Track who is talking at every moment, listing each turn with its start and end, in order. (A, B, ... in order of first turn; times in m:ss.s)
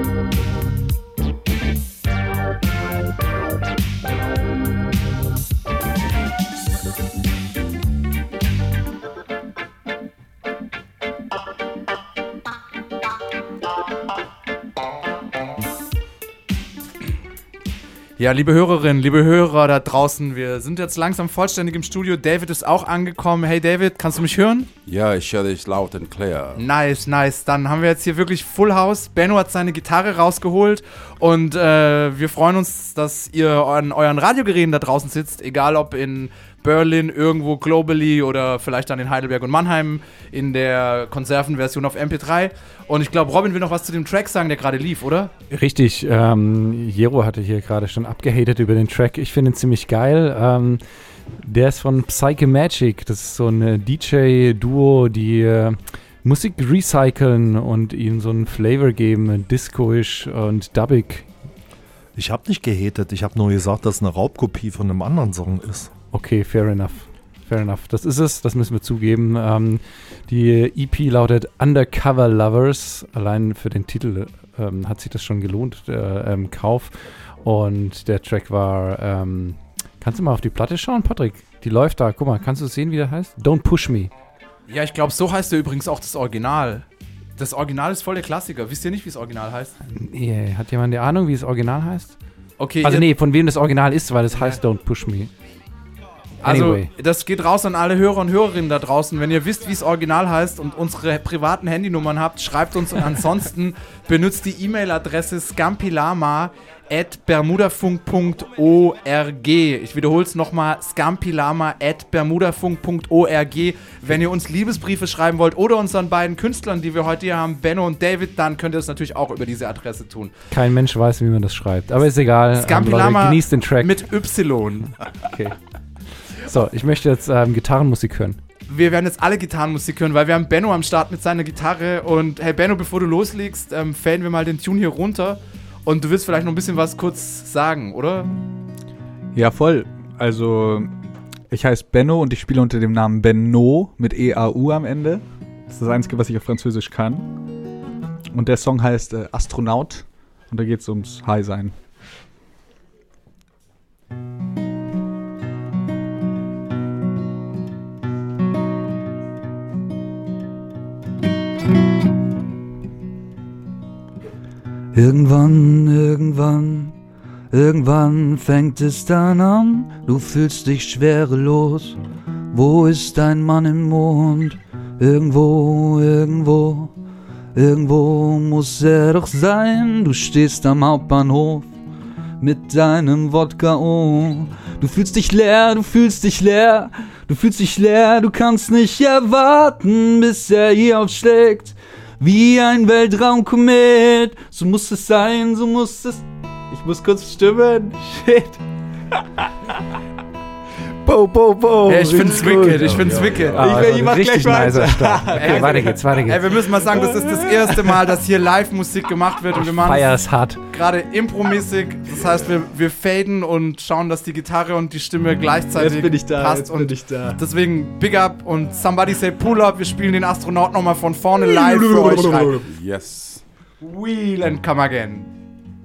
0:18.2-0:24.7 A
0:24.8-0:26.6 B
0:26.6-0:45.3 A
0:45.5-0:50.8 C
0:51.4-1:01.3 C
1:02.2-1:05.9 D
1:06.1-1:24.1 C
1:24.7-1:26.8 A
1:27.4-1:29.7 A
1:29.9-1:32.2 C
1:32.6-1:33.1 A
1:32.8-1:35.3 C
1:36.4-2:00.3 A
1:36.4-1:36.9 C
2:00.5-2:04.0 C
2:02.5-2:04.9 A
2:05.2-2:05.6 C
2:06.3-2:08.4 C
2:08.7-2:18.3 A
2:19.3-2:20.9 E
2:21.5-2:27.3 E
2:28.3-2:31.7 E
2:44.9-2:46.9 F
2:47.5-2:52.0 F
2:52.5-2:56.9 F
2:57.5-3:01.7 F
3:02.4-3:17.3 F
3:17.0-3:18.6 E
3:21.0-3:26.2 E
3:21.9-3:23.8 A
3:23.0-3:23.6 B
3:23.5-3:26.4 C
3:25.3-3:30.1 A
3:26.7-3:28.0 E
3:29.5-3:30.6 C
3:30.7-3:42.6 A
3:35.7-3:37.4 E
3:41.5-3:42.6 E
3:42.6-3:43.4 B
3:43.8-3:45.3 A